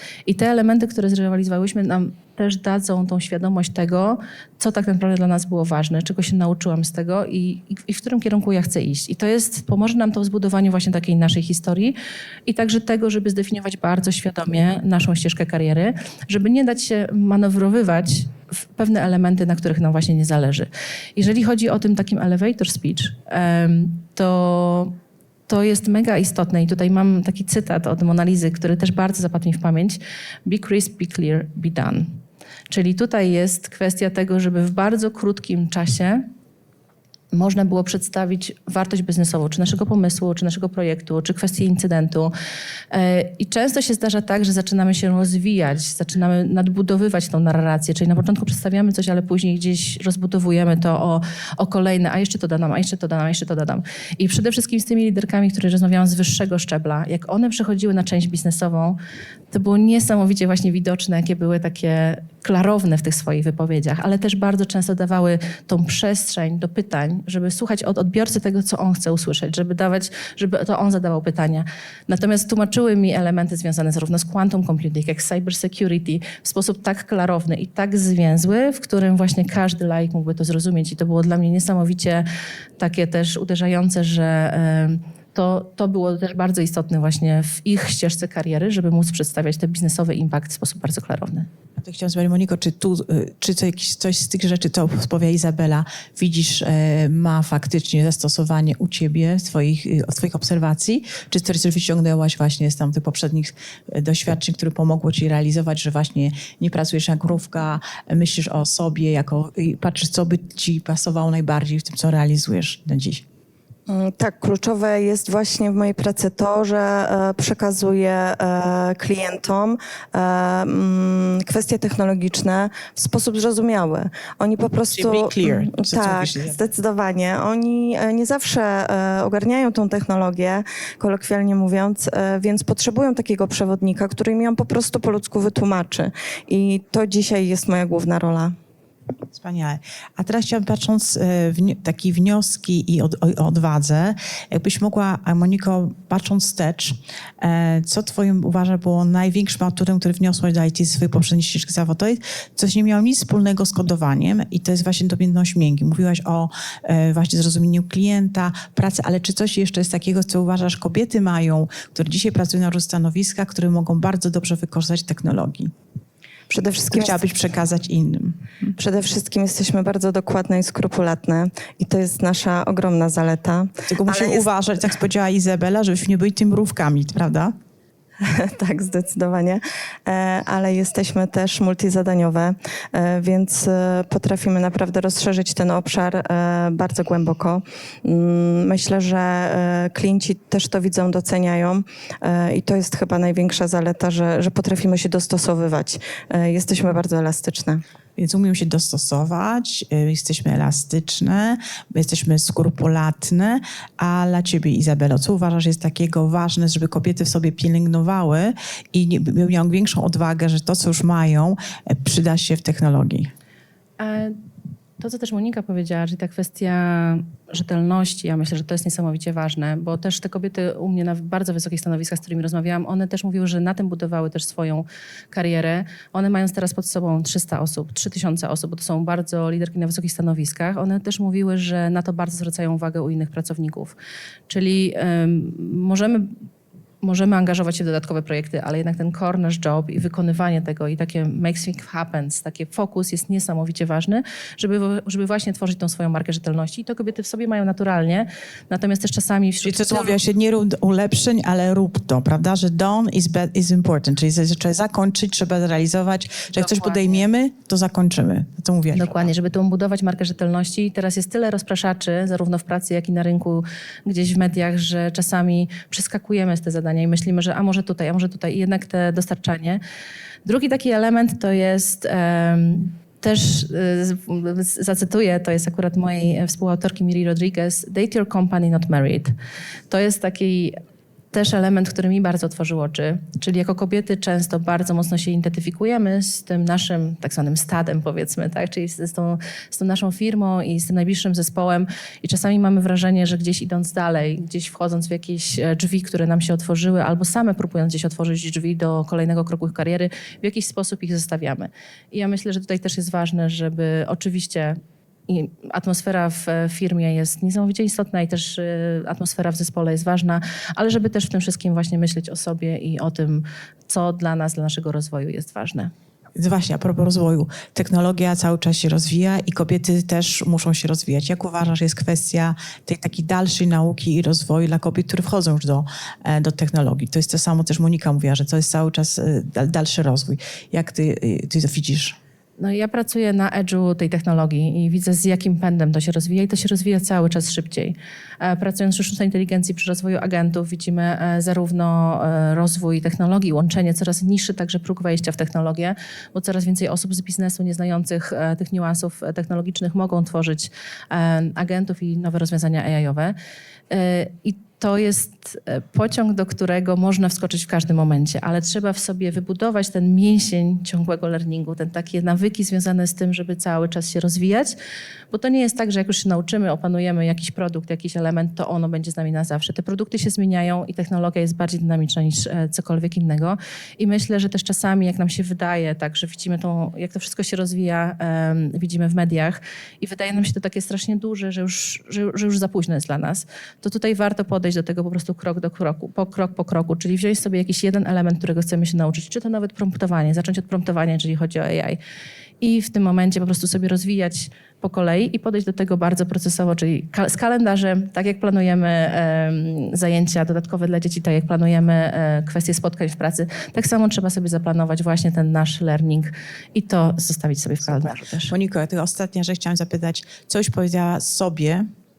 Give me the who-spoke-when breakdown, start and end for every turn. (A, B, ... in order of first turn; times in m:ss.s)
0:00.3-0:11.9 A
0:12.4-0:24.9 A
0:25.5-0:32.2 A
0:32.7-0:36.3 A
0:37.3-0:42.3 A
0:42.9-0:59.0 A
0:59.5-1:22.2 A
1:22.8-1:31.5 A
1:31.8-1:53.2 B
1:53.9-2:18.5 C
2:04.9-2:06.6 B
2:19.3-2:45.7 B
2:46.5-2:47.2 C
2:46.9-2:48.7 B
2:48.8-2:54.5 C
2:53.9-2:57.5 B
2:58.2-3:17.8 C
3:18.2-3:33.3 B
3:34.0-3:34.4 A
3:35.0-3:54.0 A
3:54.5-3:56.3 A
3:57.0-4:10.2 A
4:09.6-4:19.3 B
4:16.6-4:17.2 A
4:18.9-4:29.8 A
4:30.4-4:39.3 A
4:39.9-4:40.8 A
4:41.3-5:15.9 A
5:16.4-5:32.2 B
5:32.6-5:53.3 A
5:53.9-6:04.7 A
6:05.3-6:32.0 A
6:32.6-6:48.5 A
6:47.9-6:51.9 B